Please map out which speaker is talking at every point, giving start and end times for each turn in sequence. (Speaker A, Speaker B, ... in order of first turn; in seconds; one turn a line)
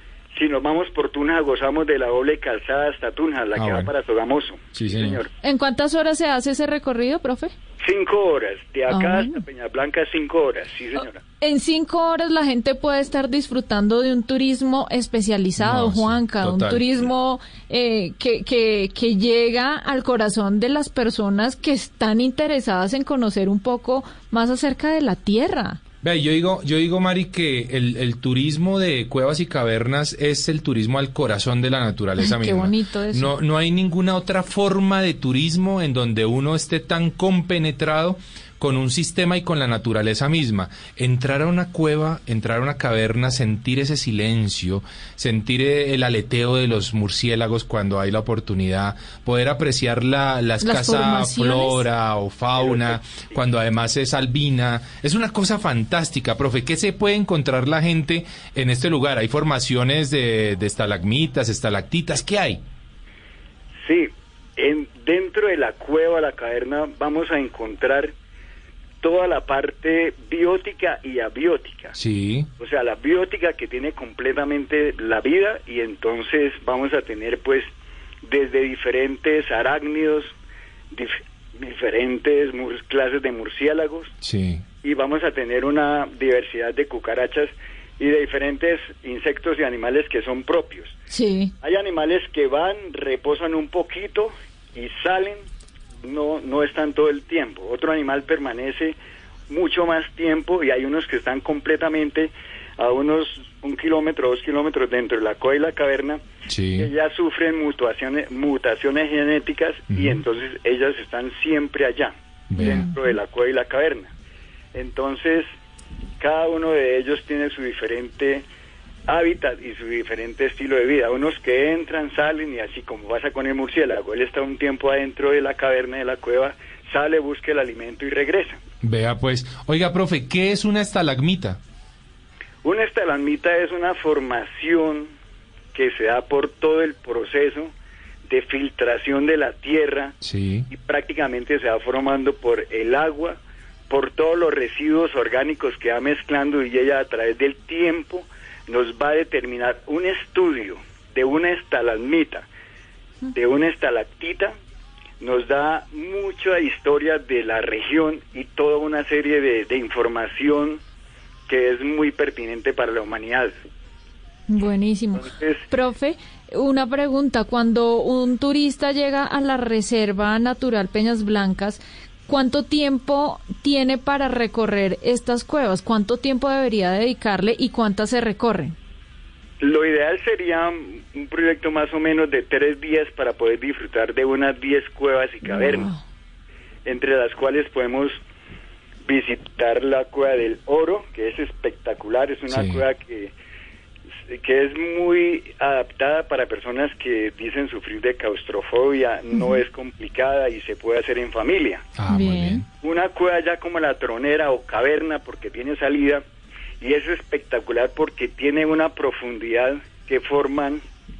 Speaker A: 0.3-5.3
Speaker B: 3.5-3.9
Speaker B: 4.7-5.2
Speaker C: 5.4-7.5
Speaker A: 7.8-11.2
Speaker C: 8.9-9.4
Speaker C: 11.4-25.8
Speaker B: 15.6-17.1
Speaker B: 26.0-62.6
Speaker C: 32.2-33.3
Speaker C: 50.6-51.8
Speaker A: 52.6-52.9
Speaker A: 63.8-68.1
Speaker A: 69.0-72.0
Speaker B: 72.0-72.5
Speaker A: 72.6-77.7
Speaker A: 78.2-80.3
Speaker A: 80.9-84.1
Speaker B: 84.2-84.6
Speaker A: 84.8-91.0
Speaker C: 91.1-91.5
Speaker A: 91.6-95.5
Speaker A: 96.0-99.0
Speaker A: 99.5-106.2
Speaker B: 106.5-106.9
Speaker A: 106.8-114.1
Speaker B: 109.9-110.2
Speaker B: 112.5-112.9
Speaker C: 112.6-113.0
Speaker A: 114.7-115.5
Speaker A: 116.2-118.5
Speaker A: 119.1-128.6
Speaker B: 128.8-131.6
Speaker A: 132.6-135.1
Speaker A: 135.7-137.7
Speaker A: 138.3-140.2
Speaker B: 140.2-140.7
Speaker A: 140.7-143.4
Speaker A: 143.9-152.5
Speaker A: 153.3-154.6
Speaker A: 155.2-160.8
Speaker A: 161.5-163.6
Speaker C: 164.5-178.7
Speaker A: 165.2-165.6
Speaker A: 179.6-185.9
Speaker C: 185.4-186.0
Speaker A: 186.8-188.2
Speaker A: 189.1-193.3
Speaker B: 192.5-192.8
Speaker A: 194.3-201.9
Speaker C: 199.3-199.6
Speaker B: 201.9-202.6
Speaker C: 202.1-202.6
Speaker A: 202.8-206.2
Speaker A: 206.8-210.8